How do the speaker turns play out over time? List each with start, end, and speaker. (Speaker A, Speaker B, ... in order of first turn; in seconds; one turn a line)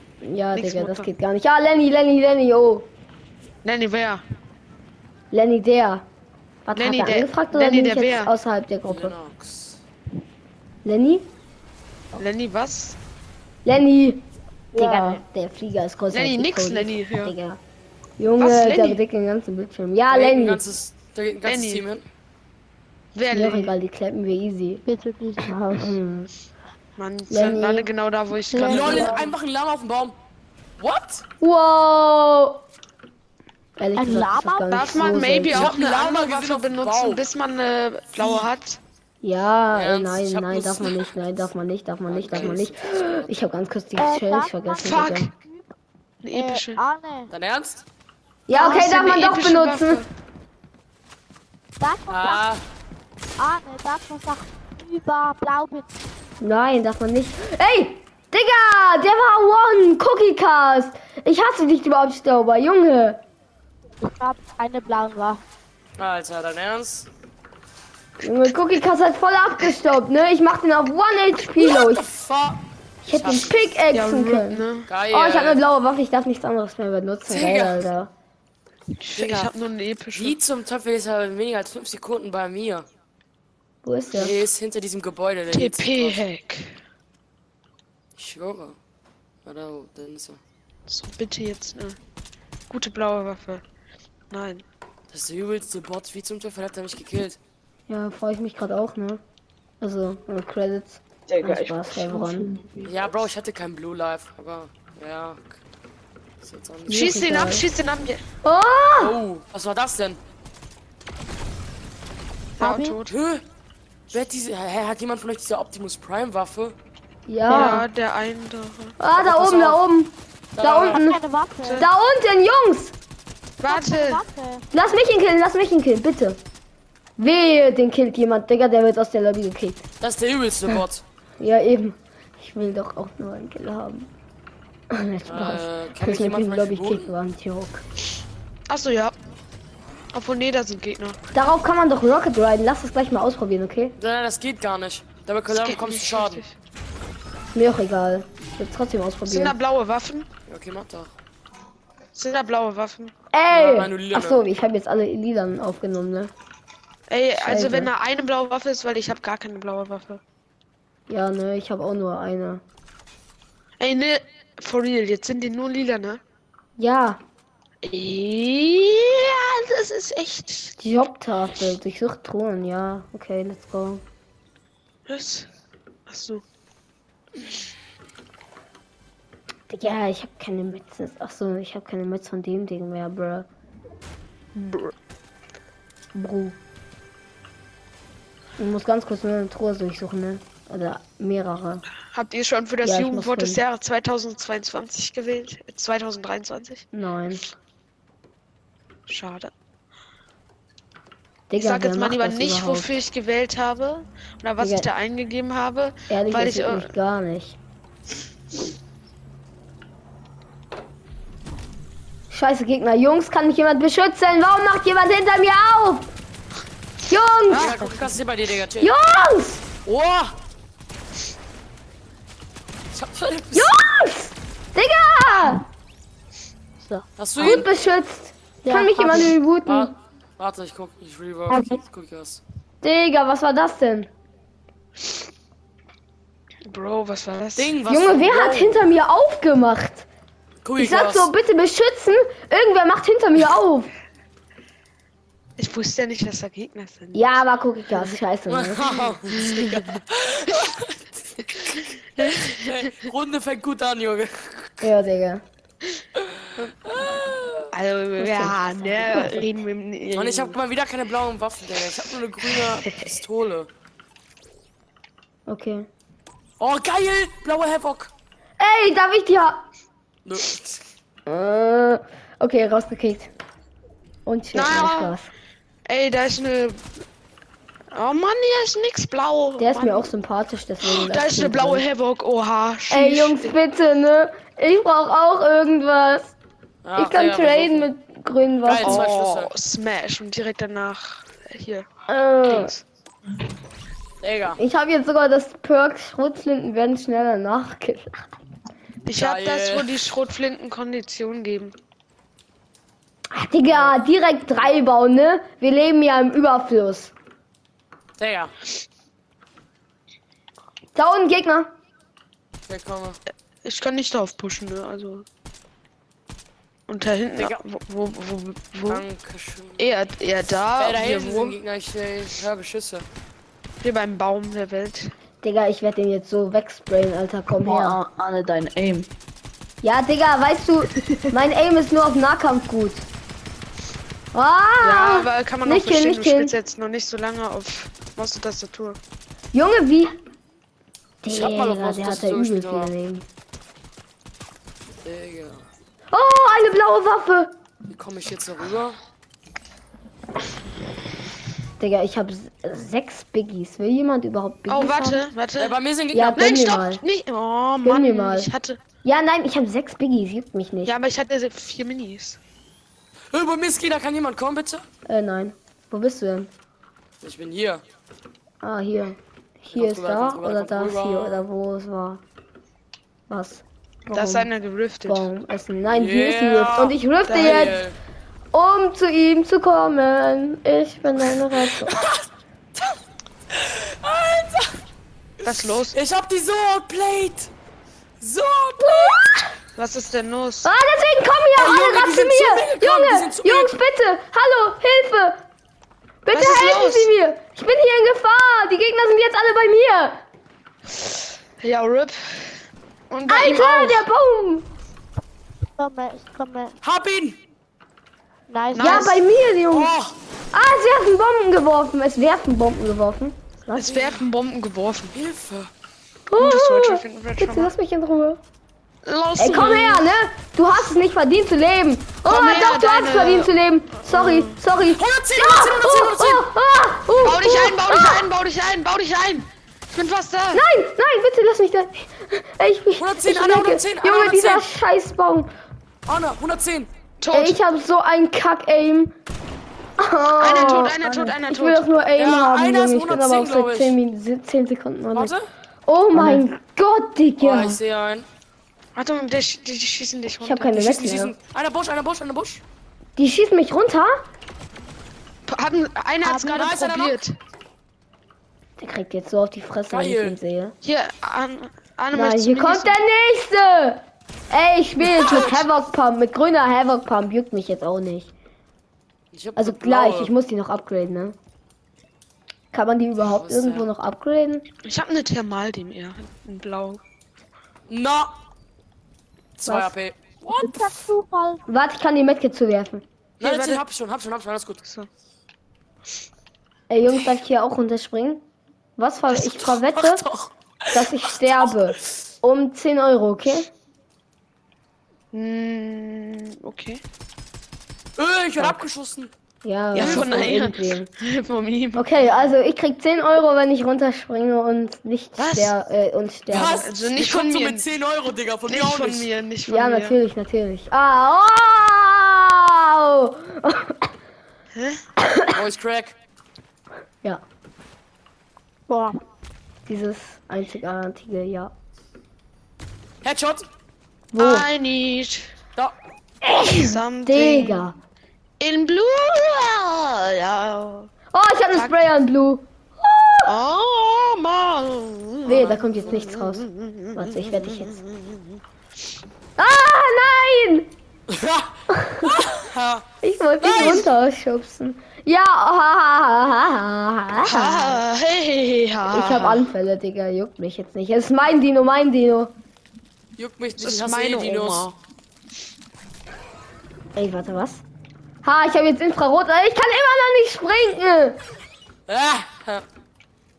Speaker A: 0.2-2.9
Speaker B: 0.5-1.1
Speaker B: 3.6-4.2
Speaker A: 5.3-6.1
Speaker A: 6.7-9.2
Speaker B: 6.8-8.3
Speaker C: 8.8-9.8
Speaker A: 10.8-11.3
Speaker B: 12.2-13.0
Speaker A: 13.7-14.2
Speaker D: 14.8-15.2
Speaker A: 14.8-17.6
Speaker B: 16.1-17.3
Speaker A: 18.2-20.6
Speaker B: 18.4-19.0
Speaker C: 20.1-22.0
Speaker B: 21.4-21.9
Speaker B: 23.1-23.8
Speaker A: 23.3-24.8
Speaker D: 24.9-25.9
Speaker A: 25.7-26.3
Speaker B: 27.0-29.3
Speaker A: 27.3-27.9
Speaker D: 28.5-29.2
Speaker C: 28.6-30.2
Speaker C: 30.8-31.2
Speaker A: 31.4-32.6
Speaker A: 33.8-35.8
Speaker D: 34.0-35.0
Speaker B: 34.7-38.8
Speaker C: 35.5-37.2
Speaker A: 39.2-45.3
Speaker C: 39.7-41.1
Speaker C: 42.1-43.3
Speaker D: 44.0-45.7
Speaker B: 44.8-45.3
Speaker B: 46.2-46.8
Speaker D: 46.3-47.3
Speaker C: 47.3-47.8
Speaker A: 48.5-50.0
Speaker B: 48.5-50.1
Speaker D: 51.8-52.4
Speaker C: 52.1-52.6
Speaker D: 53.4-55.9
Speaker A: 56.4-63.2
Speaker D: 64.0-65.4
Speaker C: 66.0-67.1
Speaker A: 68.2-72.0
Speaker C: 71.6-73.8
Speaker A: 73.0-78.1
Speaker B: 73.9-74.9
Speaker C: 74.9-75.6
Speaker C: 77.3-77.8
Speaker B: 79.0-80.4
Speaker C: 79.2-79.5
Speaker C: 80.2-82.9
Speaker A: 83.8-84.4
Speaker C: 84.2-86.2
Speaker B: 85.5-86.8
Speaker C: 88.2-88.8
Speaker C: 89.5-90.4
Speaker B: 90.9-92.0
Speaker B: 92.7-93.6
Speaker B: 94.3-94.6
Speaker C: 95.1-97.4
Speaker A: 97.9-99.2
Speaker A: 99.8-102.5
Speaker E: 101.3-103.0
Speaker C: 102.8-105.5
Speaker C: 106.4-107.1
Speaker A: 106.9-107.7
Speaker B: 106.9-108.2
Speaker A: 108.4-109.2
Speaker C: 109.0-110.2
Speaker B: 112.6-113.1
Speaker D: 112.6-113.0
Speaker C: 113.1-113.4
Speaker C: 114.1-116.8
Speaker A: 117.3-117.8
Speaker B: 117.5-119.0
Speaker A: 119.0-121.2
Speaker C: 119.2-119.8
Speaker C: 120.6-121.0
Speaker D: 120.9-121.9
Speaker B: 121.6-121.9
Speaker A: 121.8-123.0
Speaker B: 123.6-124.2
Speaker D: 123.6-124.6
Speaker A: 124.7-126.4
Speaker A: 127.2-129.9
Speaker C: 130.0-131.0
Speaker A: 131.4-134.1
Speaker A: 134.9-137.8
Speaker C: 135.2-137.1
Speaker B: 138.7-139.2
Speaker B: 140.1-141.2
Speaker A: 141.3-144.0
Speaker C: 144.0-146.4
Speaker B: 145.5-146.5
Speaker A: 147.5-149.6
Speaker B: 149.3-150.3
Speaker C: 150.5-151.1
Speaker B: 152.1-153.1
Speaker A: 153.3-156.3
Speaker C: 153.5-154.4
Speaker B: 157.1-160.2
Speaker A: 157.4-157.9
Speaker A: 161.1-162.6
Speaker B: 163.8-166.2
Speaker A: 166.8-167.2
Speaker B: 167.8-170.7
Speaker A: 170.8-174.0
Speaker B: 175.1-175.5
Speaker B: 176.1-176.4
Speaker A: 179.7-183.5
Speaker B: 184.6-184.9
Speaker A: 186.1-186.6
Speaker A: 188.6-191.8
Speaker B: 192.1-196.8
Speaker A: 192.8-193.6
Speaker A: 196.9-197.5
Speaker B: 199.1-199.5
Speaker A: 201.5-203.0
Speaker B: 201.6-206.9
Speaker A: 204.6-204.9
Speaker A: 206.1-207.6
Speaker A: 212.3-216.1
Speaker A: 217.1-217.9
Speaker C: 217.5-218.9
Speaker B: 217.5-218.0
Speaker A: 218.8-219.6
Speaker C: 219.8-220.3
Speaker C: 222.9-223.7
Speaker A: 223.5-225.7
Speaker C: 227.2-227.7
Speaker A: 227.4-229.9
Speaker D: 228.7-229.4
Speaker C: 229.7-232.4
Speaker D: 231.5-231.8
Speaker A: 232.8-234.1
Speaker B: 236.7-237.7
Speaker C: 237.6-238.9
Speaker A: 237.9-240.1
Speaker C: 240.6-241.3
Speaker A: 240.8-243.9
Speaker B: 245.6-247.4
Speaker A: 247.1-248.9
Speaker C: 248.5-254.9
Speaker B: 249.0-249.8
Speaker A: 254.8-255.4
Speaker C: 256.2-257.7
Speaker B: 257.7-260.6
Speaker A: 258.2-259.5
Speaker C: 260.1-263.7
Speaker A: 265.5-265.9
Speaker C: 266.6-268.1
Speaker A: 268.6-269.6
Speaker C: 270.2-270.8
Speaker A: 271.3-273.3
Speaker A: 274.2-275.3
Speaker B: 274.5-275.2
Speaker B: 275.9-276.8
Speaker B: 277.9-280.1
Speaker A: 279.6-281.8
Speaker B: 280.8-283.5
Speaker A: 282.9-286.4
Speaker C: 286.8-287.9
Speaker A: 286.9-289.1
Speaker C: 288.6-289.5
Speaker B: 288.8-291.9
Speaker A: 292.1-292.7
Speaker B: 292.4-292.8
Speaker C: 294.2-294.6
Speaker A: 294.6-298.2
Speaker B: 299.1-301.8
Speaker C: 299.2-300.0
Speaker A: 303.3-307.1
Speaker C: 303.7-304.0
Speaker C: 308.2-308.5
Speaker A: 310.9-311.7
Speaker C: 312.7-313.2
Speaker B: 313.6-315.3
Speaker B: 316.9-319.0
Speaker C: 317.4-317.6
Speaker C: 318.9-319.9
Speaker B: 319.8-321.6
Speaker C: 320.8-323.1
Speaker B: 323.8-325.1
Speaker A: 325.4-328.0
Speaker E: 327.6-329.1
Speaker A: 329.8-333.1
Speaker A: 334.3-336.5
Speaker B: 334.8-339.0
Speaker A: 339.5-340.2
Speaker A: 341.2-343.2
Speaker C: 341.3-342.9
Speaker C: 345.0-345.6
Speaker A: 346.1-347.5
Speaker C: 347.9-349.0
Speaker A: 351.8-355.2
Speaker B: 354.7-355.8
Speaker C: 355.6-356.6
Speaker A: 356.1-357.0
Speaker B: 356.4-358.8
Speaker A: 357.8-358.5
Speaker A: 359.0-360.9
Speaker B: 360.9-362.4
Speaker C: 363.3-364.8
Speaker A: 365.1-366.5
Speaker C: 367.2-367.8
Speaker A: 368.6-372.2
Speaker C: 369.7-371.4
Speaker A: 373.3-374.5
Speaker B: 374.1-375.2
Speaker A: 375.1-377.8
Speaker C: 375.9-378.0
Speaker B: 377.3-377.7
Speaker A: 378.5-381.9
Speaker C: 381.8-383.0
Speaker C: 383.5-384.8
Speaker C: 385.4-387.5
Speaker B: 385.4-386.0
Speaker C: 388.2-389.3
Speaker A: 388.8-389.4
Speaker B: 389.8-390.7
Speaker A: 390.6-395.4
Speaker C: 391.6-393.8
Speaker A: 396.2-400.2
Speaker B: 396.3-397.1
Speaker B: 401.1-402.6
Speaker B: 403.1-404.1
Speaker A: 403.3-404.7
Speaker D: 405.8-406.8
Speaker C: 406.8-407.4
Speaker D: 408.5-409.1
Speaker B: 408.7-409.2
Speaker A: 408.8-409.9
Speaker C: 409.7-410.2
Speaker A: 410.5-413.9
Speaker B: 413.7-415.2
Speaker C: 413.9-414.1
Speaker C: 415.1-415.7
Speaker A: 416.3-418.4
Speaker B: 416.4-417.7
Speaker B: 419.1-420.1
Speaker A: 419.4-428.3
Speaker B: 422.2-423.5
Speaker B: 424.1-424.6
Speaker C: 424.9-426.5
Speaker B: 427.2-430.6
Speaker A: 430.5-435.5
Speaker C: 433.0-434.7
Speaker C: 436.1-436.9
Speaker B: 437.2-437.6
Speaker A: 437.3-439.1
Speaker A: 440.0-445.3
Speaker B: 440.4-441.9
Speaker C: 442.2-443.9
Speaker C: 445.1-445.4
Speaker A: 445.9-447.8
Speaker E: 446.1-446.5
Speaker C: 447.4-448.3
Speaker B: 448.9-450.8
Speaker A: 450.4-451.4
Speaker C: 450.7-452.6
Speaker A: 453.2-454.2
Speaker B: 455.5-457.4
Speaker D: 456.2-456.6
Speaker C: 456.5-457.2
Speaker A: 458.8-460.8
Speaker C: 459.9-460.4
Speaker B: 460.8-463.0
Speaker A: 462.1-468.3
Speaker C: 465.0-465.6
Speaker C: 469.3-470.3
Speaker A: 469.6-471.4
Speaker A: 472.7-474.7
Speaker C: 473.2-473.9
Speaker B: 474.9-477.0
Speaker C: 477.9-478.3
Speaker C: 479.6-480.9
Speaker A: 479.6-479.9
Speaker D: 480.6-481.6
Speaker A: 481.7-483.1
Speaker C: 483.4-484.8
Speaker B: 483.4-483.8
Speaker A: 486.9-488.4
Speaker A: 489.0-490.2
Speaker C: 489.3-491.9
Speaker A: 490.9-493.7
Speaker B: 495.3-497.0
Speaker C: 498.2-499.3
Speaker A: 499.6-501.1
Speaker C: 499.9-500.6
Speaker B: 499.9-502.1
Speaker A: 502.0-506.9
Speaker B: 505.4-505.7
Speaker C: 506.5-509.3
Speaker B: 506.8-507.9
Speaker B: 508.7-510.2
Speaker A: 509.7-514.1
Speaker B: 514.8-515.0
Speaker A: 515.2-515.5
Speaker C: 515.5-516.1
Speaker D: 518.9-519.2
Speaker A: 519.9-521.7
Speaker C: 523.2-523.7
Speaker A: 524.3-524.7
Speaker B: 524.4-525.5
Speaker A: 526.5-528.0
Speaker B: 526.6-527.9
Speaker B: 528.6-531.1
Speaker A: 531.3-533.5
Speaker B: 531.7-532.1
Speaker B: 533.5-538.6
Speaker A: 535.5-538.0
Speaker A: 539.6-540.9
Speaker C: 541.3-543.0
Speaker A: 541.9-542.3
Speaker A: 543.2-548.0
Speaker C: 543.6-544.1
Speaker B: 547.4-549.7
Speaker A: 549.1-552.5
Speaker C: 553.4-554.9
Speaker B: 553.8-555.0
Speaker A: 557.1-557.8
Speaker A: 558.4-561.4
Speaker C: 562.1-562.9